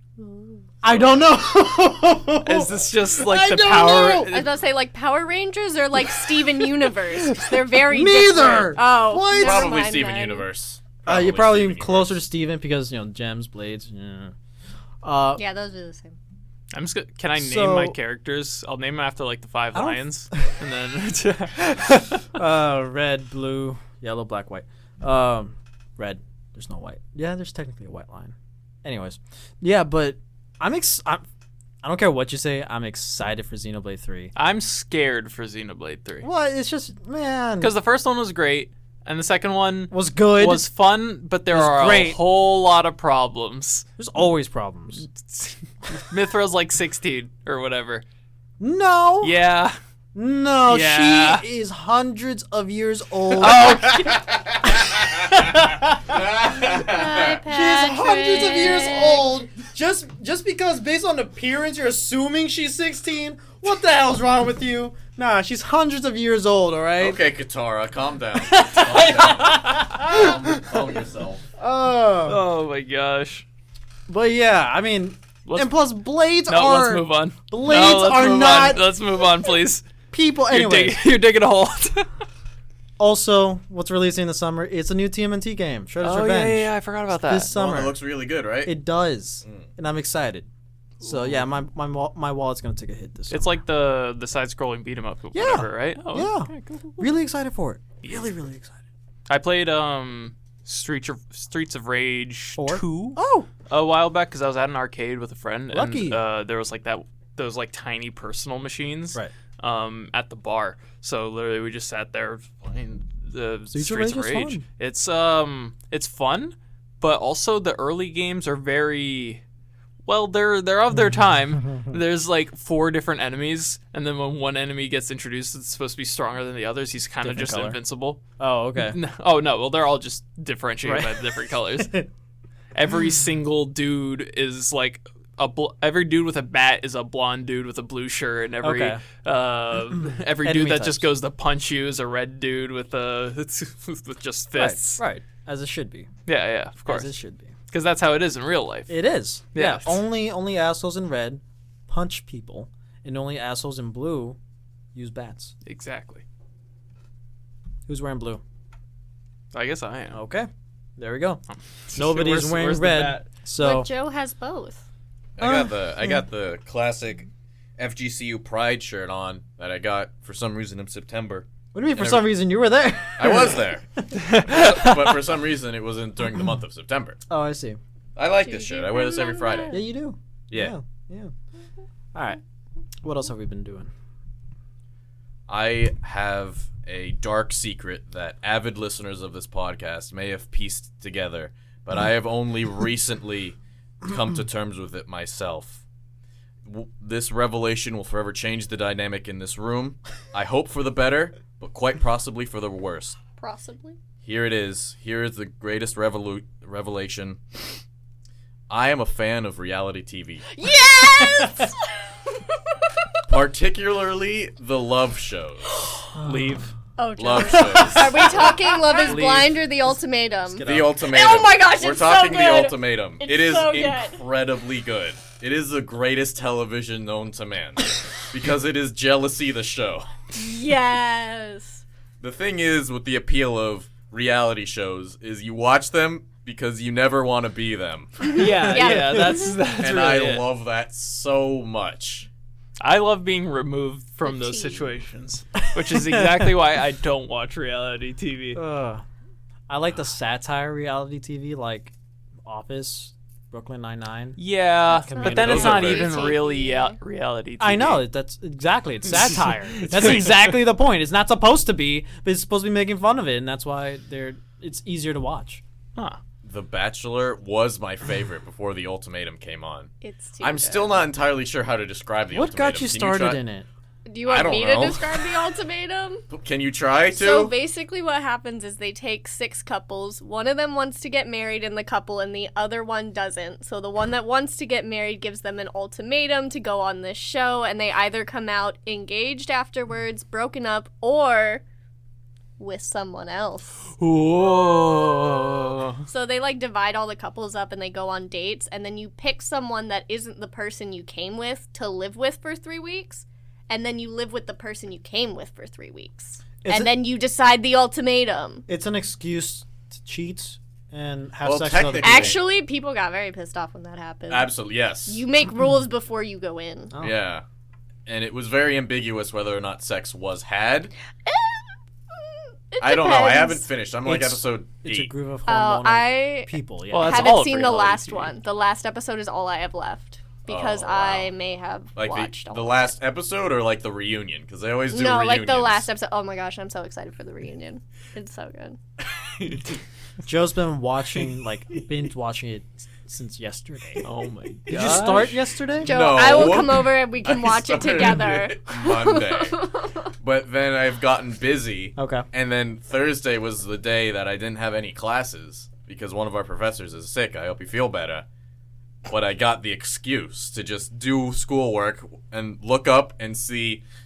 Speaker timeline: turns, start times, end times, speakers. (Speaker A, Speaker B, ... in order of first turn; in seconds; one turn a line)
Speaker A: 0.2-0.6
Speaker B: 0.8-4.3
Speaker C: 0.9-1.2
Speaker D: 2.4-4.5
Speaker A: 4.3-10.4
Speaker B: 7.8-9.7
Speaker C: 9.3-12.2
Speaker B: 11.1-14.3
Speaker B: 15.0-15.4
Speaker A: 15.4-16.1
Speaker D: 16.7-22.3
Speaker B: 17.4-17.9
Speaker B: 19.7-20.4
Speaker B: 22.3-31.2
Speaker B: 31.8-34.3
Speaker D: 34.3-36.3
Speaker B: 36.2-37.7
Speaker D: 37.6-43.9
Speaker B: 39.9-40.7
Speaker B: 41.5-42.2
Speaker B: 44.0-45.0
Speaker D: 45.0-48.0
Speaker B: 48.6-49.3
Speaker D: 49.2-49.8
Speaker B: 50.1-56.3
Speaker D: 50.6-51.4
Speaker D: 53.4-54.1
Speaker C: 53.9-55.4
Speaker C: 56.1-57.4
Speaker A: 56.6-59.2
Speaker B: 57.5-67.2
Speaker C: 67.0-71.4
Speaker B: 68.4-70.6
Speaker B: 71.6-72.4
Speaker D: 72.2-73.4
Speaker B: 74.1-78.8
Speaker D: 75.5-75.7
Speaker D: 76.5-79.9
Speaker B: 80.1-81.0
Speaker D: 80.5-82.1
Speaker B: 83.0-86.7
Speaker D: 86.0-87.5
Speaker B: 87.2-88.0
Speaker C: 87.5-88.7
Speaker B: 88.6-90.5
Speaker D: 91.0-91.4
Speaker B: 91.0-93.5
Speaker D: 93.3-97.1
Speaker B: 95.3-98.8
Speaker D: 99.3-119.4
Speaker B: 102.6-103.5
Speaker B: 105.7-106.2
Speaker B: 113.7-114.6
Speaker D: 120.0-128.2
Speaker B: 121.0-122.0
Speaker B: 127.2-127.8
Speaker B: 128.4-129.0
Speaker D: 128.8-132.0
Speaker B: 130.8-132.1
Speaker D: 132.7-145.0
Speaker B: 138.6-139.0
Speaker B: 140.4-141.1
Speaker B: 144.5-146.1
Speaker D: 146.3-147.1
Speaker B: 146.8-147.5
Speaker D: 147.7-148.9
Speaker B: 148.9-154.4
Speaker D: 149.5-150.0
Speaker B: 154.9-155.5
Speaker D: 155.6-156.2
Speaker B: 157.9-158.4
Speaker D: 159.5-160.2
Speaker B: 160.1-161.4
Speaker D: 161.5-163.2
Speaker B: 161.9-163.9
Speaker A: 163.6-164.8
Speaker C: 165.4-172.2
Speaker B: 165.4-166.2
Speaker B: 171.7-174.1
Speaker C: 173.2-177.2
Speaker D: 174.1-175.1
Speaker B: 177.3-177.8
Speaker C: 178.2-179.8
Speaker A: 178.4-179.8
Speaker B: 179.7-181.3
Speaker B: 183.0-183.9
Speaker C: 185.5-195.8
Speaker C: 196.6-203.2
Speaker A: 203.4-204.0
Speaker C: 204.2-207.4
Speaker C: 208.7-210.4
Speaker A: 210.5-212.6
Speaker B: 211.2-211.7
Speaker C: 213.3-215.7
Speaker B: 216.1-216.6
Speaker D: 216.2-216.7
Speaker A: 217.0-224.2
Speaker C: 217.2-218.6
Speaker B: 217.4-219.2
Speaker D: 219.0-219.5
Speaker B: 220.5-221.0
Speaker C: 220.6-230.1
Speaker A: 230.3-231.8
Speaker C: 232.2-238.2
Speaker A: 238.2-239.6
Speaker D: 238.3-240.4
Speaker B: 238.5-239.5
Speaker C: 239.8-242.3
Speaker D: 242.8-248.6
Speaker A: 244.2-244.9
Speaker B: 245.8-246.5
Speaker B: 248.5-249.0
Speaker B: 249.7-251.9
Speaker B: 252.4-254.4
Speaker D: 254.4-258.0
Speaker A: 254.9-256.9
Speaker B: 254.9-255.9
Speaker C: 255.2-256.4
Speaker B: 257.6-265.6
Speaker D: 259.8-260.3
Speaker C: 266.4-273.4
Speaker A: 270.0-271.1
Speaker B: 272.3-273.6
Speaker A: 274.1-276.2
Speaker C: 274.3-275.1
Speaker C: 276.3-277.5
Speaker A: 277.1-291.6
Speaker A: 292.6-293.9
Speaker D: 293.9-296.0
Speaker A: 296.1-308.6
Speaker B: 306.6-306.9
Speaker B: 308.7-312.4
Speaker C: 311.4-312.4
Speaker A: 312.0-314.5
Speaker C: 314.3-315.2
Speaker A: 315.1-316.9
Speaker C: 317.0-317.4
Speaker C: 318.1-320.9
Speaker A: 321.2-321.7
Speaker A: 322.7-323.7
Speaker C: 322.8-325.1
Speaker B: 324.0-327.5
Speaker A: 325.5-332.9
Speaker D: 326.9-328.3
Speaker C: 330.5-331.3
Speaker C: 331.9-335.9
Speaker A: 334.9-338.8
Speaker C: 339.1-339.7
Speaker B: 340.2-344.0
Speaker D: 344.0-345.4
Speaker B: 344.7-346.2
Speaker C: 345.8-349.6
Speaker A: 345.8-350.1
Speaker C: 350.2-358.2
Speaker B: 352.0-352.2
Speaker C: 359.1-363.8